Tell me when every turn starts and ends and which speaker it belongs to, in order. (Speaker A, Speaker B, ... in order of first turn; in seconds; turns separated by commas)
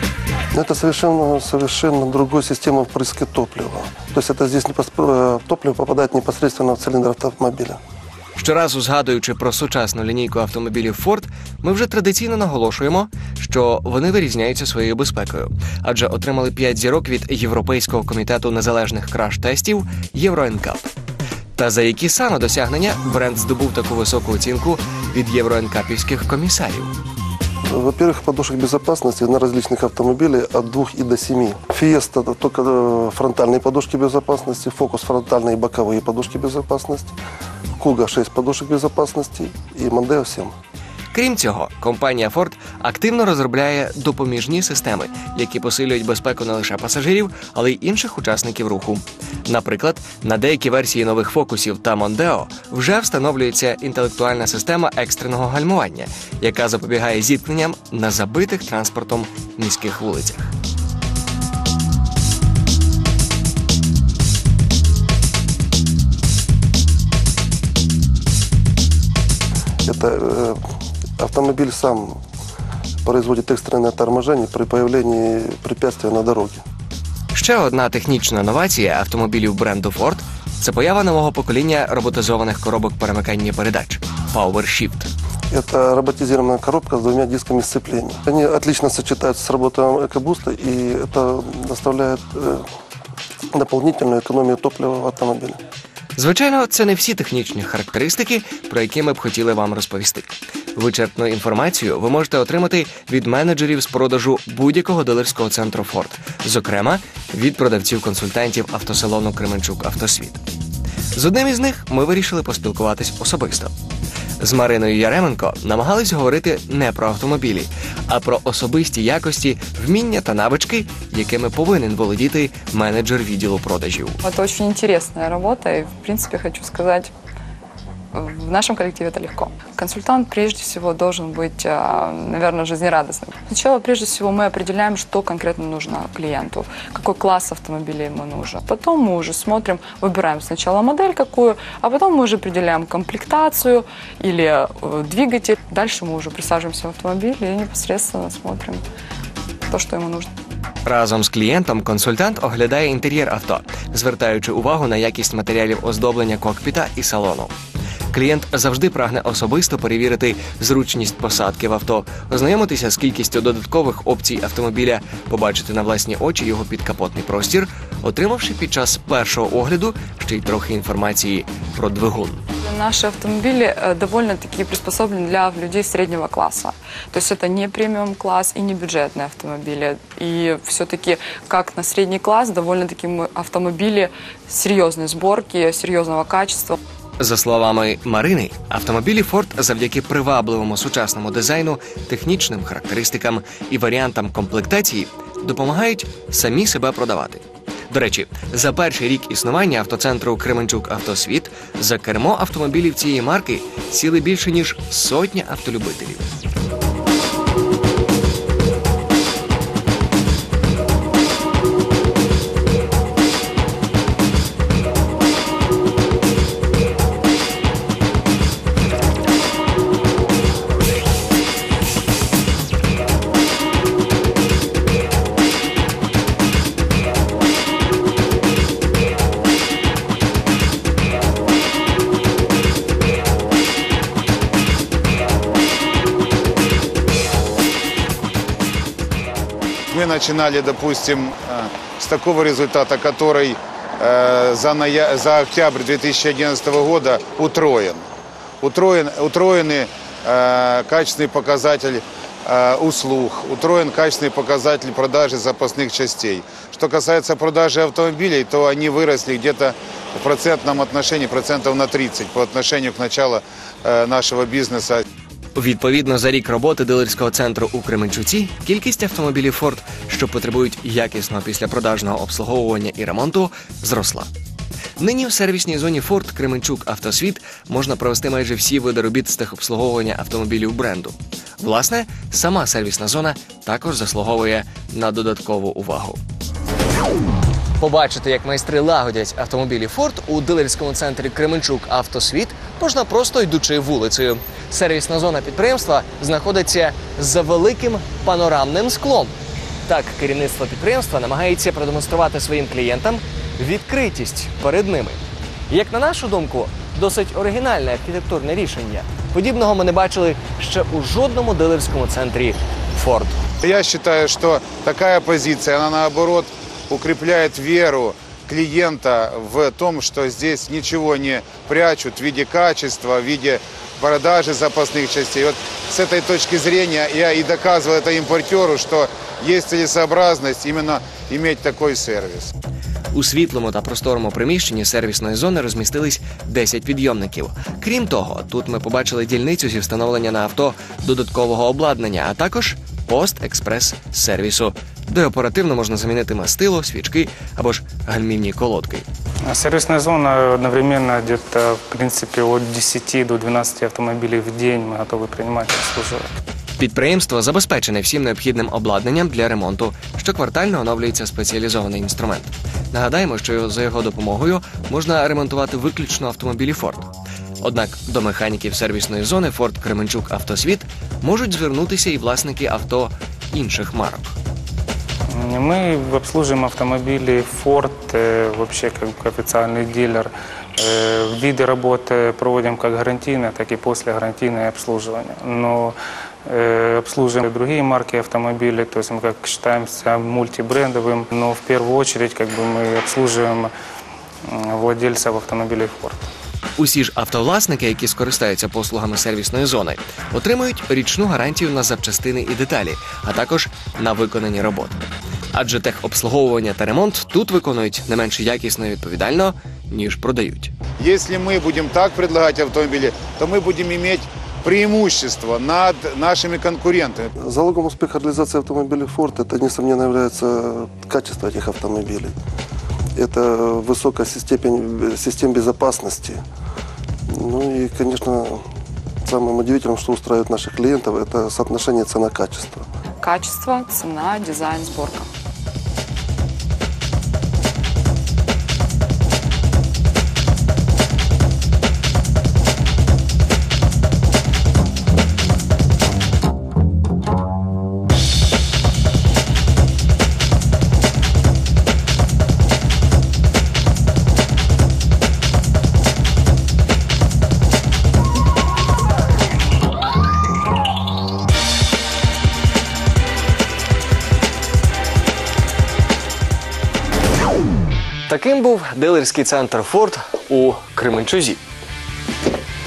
Speaker A: 0.5-7.8, Speaker B: 8.3-20.9, Speaker B: 21.6-26.9, Speaker A: 27.6-37.1, Speaker A: 37.8-40.5, Speaker B: 41.1-60.5, Speaker A: 69.8-70.6, Speaker A: 71.2-72.2, Speaker A: 73.0-76.6, Speaker B: 77.3-85.1, Speaker A: 85.5-92.6, Speaker A: 93.5-95.6, Speaker B: 96.2-110.4, Speaker B: 111.1-113.7, Speaker B: 114.4-124.2, Speaker C: 124.2-127.1, Speaker C: 128.1-148.8, Speaker C: 149.7-150.3, Speaker B: 150.8-157.5, Speaker B: 158.1-172.4, Speaker C: 172.6-186.8, Speaker B: 187.2-206.3, Speaker D: 239.9-248.0, Speaker D: 248.6-265.0, Speaker B: 265.5-274.3, Speaker B: 275.0-286.2, Speaker B: 287.8-299.3, Speaker B: 299.9-313.4, Speaker D: 313.6-332.5, Speaker B: 333.1-349.1, Speaker E: 349.5-356.3, Speaker B: 356.8-367.1, Speaker B: 367.6-374.4, Speaker E: 375.3-393.7, Speaker E: 394.4-396.2, Speaker B: 396.8-410.7, Speaker D: 411.0-417.3, Speaker A: 417.4-422.3, Speaker A: 423.1-426.4, Speaker A: 427.3-428.6, Speaker A: 429.2-432.8, Speaker C: 433.2-435.3, Speaker B: 468.3-471.6